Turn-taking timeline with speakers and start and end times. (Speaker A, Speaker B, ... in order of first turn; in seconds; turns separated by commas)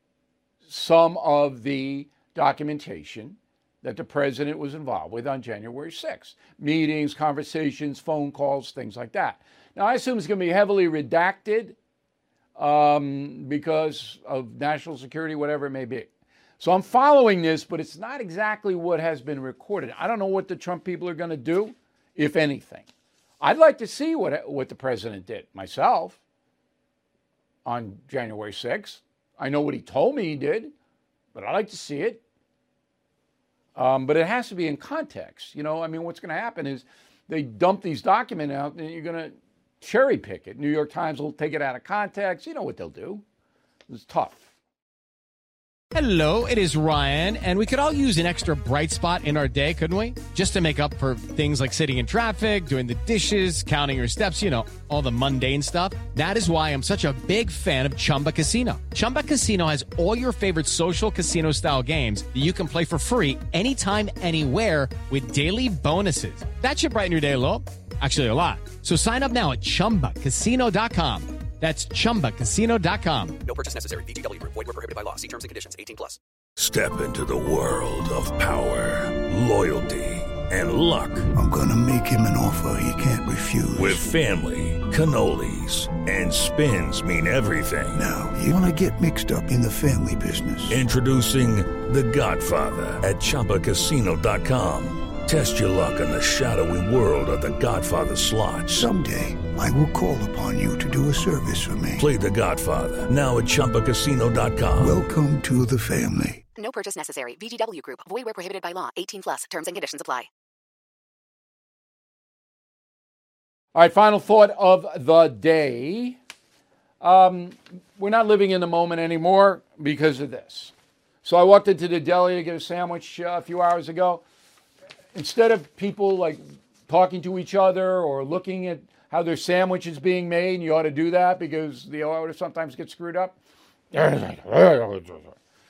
Speaker A: 0.7-11.8, Speaker A: 12.6-16.1, Speaker A: 16.6-22.9, Speaker A: 23.4-26.2, Speaker A: 27.6-30.7, Speaker A: 31.3-32.2, Speaker A: 33.8-43.2, Speaker A: 43.9-44.4, Speaker B: 45.9-73.4, Speaker C: 73.4-76.2, Speaker D: 76.6-81.3, Speaker E: 81.3-84.1, Speaker D: 83.7-88.0, Speaker E: 88.0-90.8, Speaker D: 90.7-98.9, Speaker E: 98.7-102.0, Speaker D: 102.0-105.0, Speaker E: 104.8-106.4, Speaker C: 106.5-110.3, Speaker A: 113.7-116.2, Speaker A: 117.0-120.7, Speaker A: 121.2-124.2, Speaker A: 125.1-133.3, Speaker A: 133.9-135.3